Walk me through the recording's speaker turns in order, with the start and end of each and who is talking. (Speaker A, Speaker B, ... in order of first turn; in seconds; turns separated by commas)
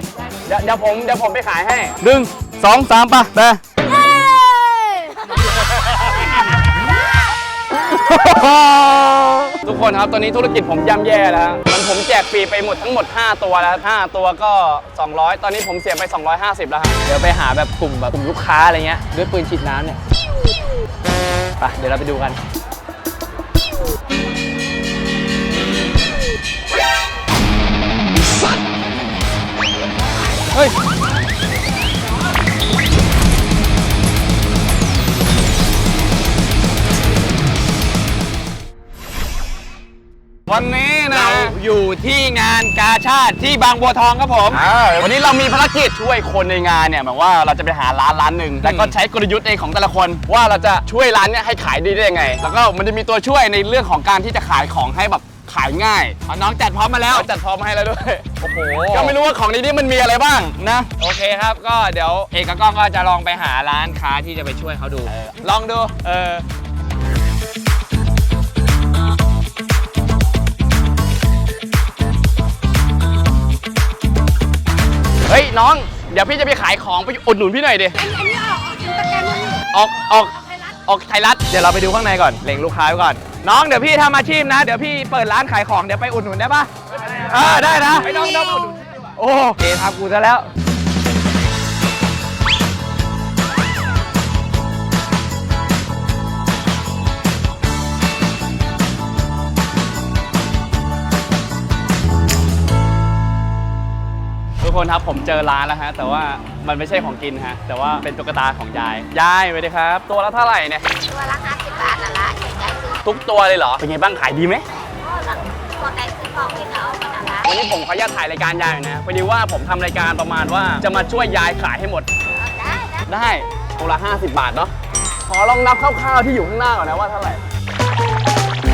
Speaker A: 0.5-3.6, Speaker A: 7.7-17.0, Speaker B: 17.0-20.0, Speaker B: 21.6-22.4, Speaker A: 40.5-41.5, Speaker B: 41.1-44.6, Speaker A: 44.5-56.2, Speaker B: 48.6-48.9, Speaker B: 56.3-57.3, Speaker A: 57.1-58.4, Speaker B: 58.4-59.1, Speaker A: 58.9-60.9, Speaker B: 61.0-66.1, Speaker A: 65.1-65.3, Speaker A: 66.1-66.4, Speaker A: 75.3-78.0, Speaker C: 78.0-79.6, Speaker A: 79.7-81.4, Speaker B: 81.5-88.1, Speaker A: 87.1-88.8, Speaker B: 89.2-90.5, Speaker A: 104.6-110.8, Speaker C: 111.1-113.0, Speaker A: 113.0-114.6, Speaker C: 115.0-117.4, Speaker A: 117.4-122.1, Speaker A: 123.0-124.7, Speaker A: 125.2-127.4